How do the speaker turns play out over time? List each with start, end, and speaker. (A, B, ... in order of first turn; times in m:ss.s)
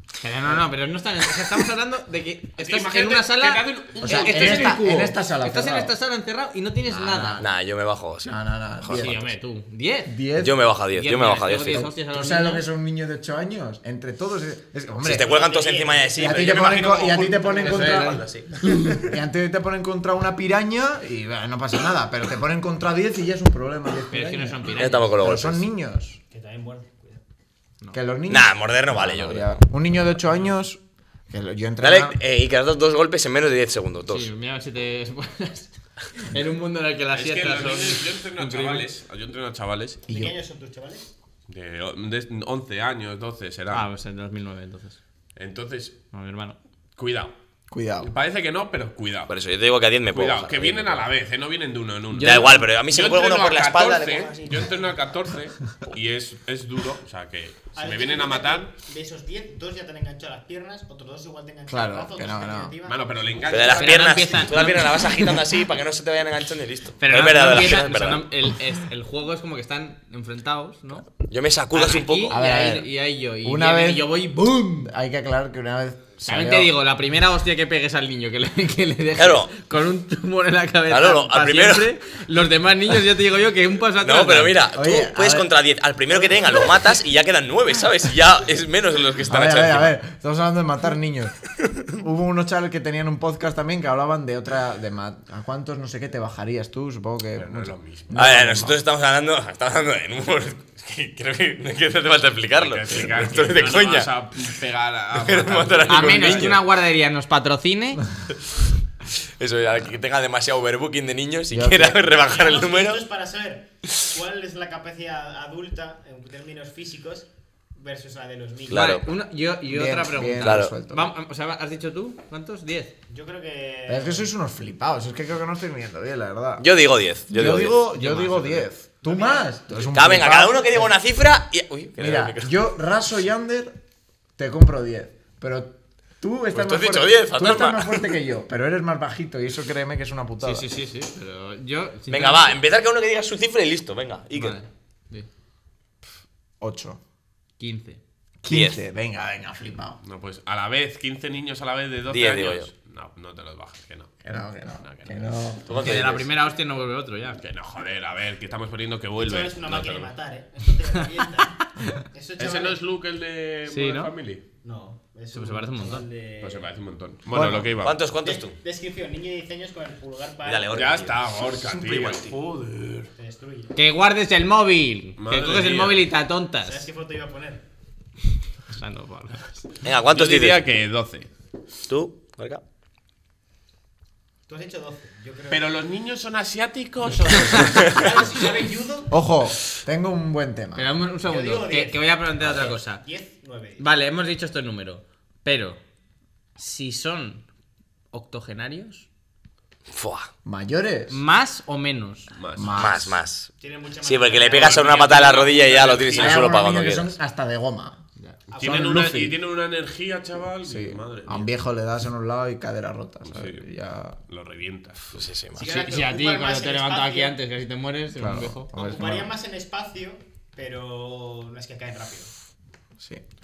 0:00.2-0:07.4 A
0:02.6-0:04.8 B
0:04.0-0:05.9 C
0:06.8-0:07.5 C
0:07.4-0:09.2 D
0:08.2-0:09.2 C
0:08.9-0:10.2 A
0:10.0-0:10.7 C
0:10.4-0:11.9 D
0:10.9-0:12.7 A
0:11.7-0:15.3 C
0:15.0-0:18.5 D
0:15.1-0:18.3 E
0:16.2-0:26.2 C
0:16.8-0:17.1 B
0:17.6-0:19.0 A
0:24.1-0:25.2 A
0:24.8-0:25.6 D
0:26.3-0:27.2 E
0:27.9-0:32.2 C
0:28.3-0:29.6 D
0:31.8-0:34.3 D
0:34.1-0:38.9 A
0:37.1-0:40.0 B
0:40.1-0:41.1 E
0:40.1-0:40.4 C
0:41.5-0:43.9 B
0:43.7-0:45.0 A
0:45.4-0:46.0 B
0:46.1-0:46.6 A
0:47.0-0:47.3 B
0:47.7-0:48.1 C
0:48.0-0:49.3 B
0:49.3-0:51.0 D
0:50.1-0:58.7 B
0:52.1-0:52.7 A
0:52.2-0:54.2 D
0:54.0-0:54.9 E
0:57.8-1:04.7 E
1:01.7-1:02.7 C
1:02.8-1:04.1 B
1:03.5-1:08.3 D
1:03.7-1:05.4 A
1:07.0-1:11.1 A
1:11.2-1:12.4 D
1:11.7-1:14.9 A
1:12.3-1:16.7 C
1:16.2-1:24.6 A
1:19.1-1:19.5 D
1:20.9-1:21.9 D
1:24.0-1:29.9 D
1:24.7-1:25.5 C
1:29.2-1:38.8 C
1:37.3-1:38.2 B
1:38.1-1:44.1 D
1:42.5-1:46.6 B
1:45.1-1:46.6 D
1:45.9-1:48.0 A
1:49.4-1:53.0 D
1:51.5-1:52.1 C
1:52.1-1:59.0 E
1:58.7-1:59.0 D
1:58.7-2:02.9 A
1:59.7-2:01.1 C
2:00.4-2:00.7 D
2:03.1-2:04.3 E
2:03.9-2:06.7 C
2:06.6-2:07.8 D
2:07.3-2:10.9 C
2:07.8-2:08.7 A
2:09.0-2:09.5 E
2:09.9-2:12.5 D
2:12.0-2:13.8 C
2:14.4-2:20.7 C
2:16.5-2:18.1 D
2:20.4-2:22.6 A
2:22.1-2:24.6 D
2:24.3-2:25.3 A
2:26.6-2:27.0 C
2:27.6-2:28.0 A
2:28.4-2:30.0 C
2:28.5-2:28.8 D
2:30.0-2:34.2 B
2:32.1-2:32.7 D
2:34.2-2:35.8 C
2:34.8-2:35.2 B
2:35.7-2:36.3 D
2:35.7-2:37.4 A
2:37.4-2:40.1 B
2:39.2-2:42.8 E
2:41.2-2:42.0 A
2:42.4-2:44.4 B
2:43.7-2:44.1 A
2:44.6-2:46.7 E
2:45.3-2:46.1 A
2:46.4-2:48.0 B
2:47.3-2:47.7 C
2:47.8-2:48.6 D
2:48.2-2:50.9 E
2:50.4-2:52.3 D
2:50.7-2:53.1 B
2:53.2-2:53.7 E
2:53.7-2:56.9 A
2:55.2-2:56.0 B
2:56.6-2:57.6 E
2:58.7-2:59.7 A
2:59.8-3:00.6 D
3:00.1-3:01.3 B
3:01.9-3:02.6 D
3:04.5-3:05.8 E
3:05.5-3:08.3 B
3:07.5-3:09.2 E
3:09.1-3:10.9 C
3:10.7-3:13.0 A
3:11.2-3:13.9 E
3:13.8-3:15.8 A
3:16.6-3:17.4 A
3:18.1-3:19.1 A
3:19.9-3:20.3 D
3:20.4-3:21.2 C
3:21.1-3:22.3 A
3:22.3-3:23.0 B
3:22.6-3:23.2 C
3:22.7-3:23.5 D
3:23.6-3:26.3 E
3:24.0-3:27.1 D
3:24.5-3:26.4 B
3:26.1-3:28.0 C
3:28.5-3:31.5 B
3:28.6-3:29.4 C
3:30.6-3:34.2 C
3:33.2-3:33.6 B
3:34.3-3:35.3 B
3:35.1-3:35.7 D
3:35.5-3:37.4 E
3:35.6-3:38.7 A
3:38.2-3:39.3 C
3:38.7-3:42.3 E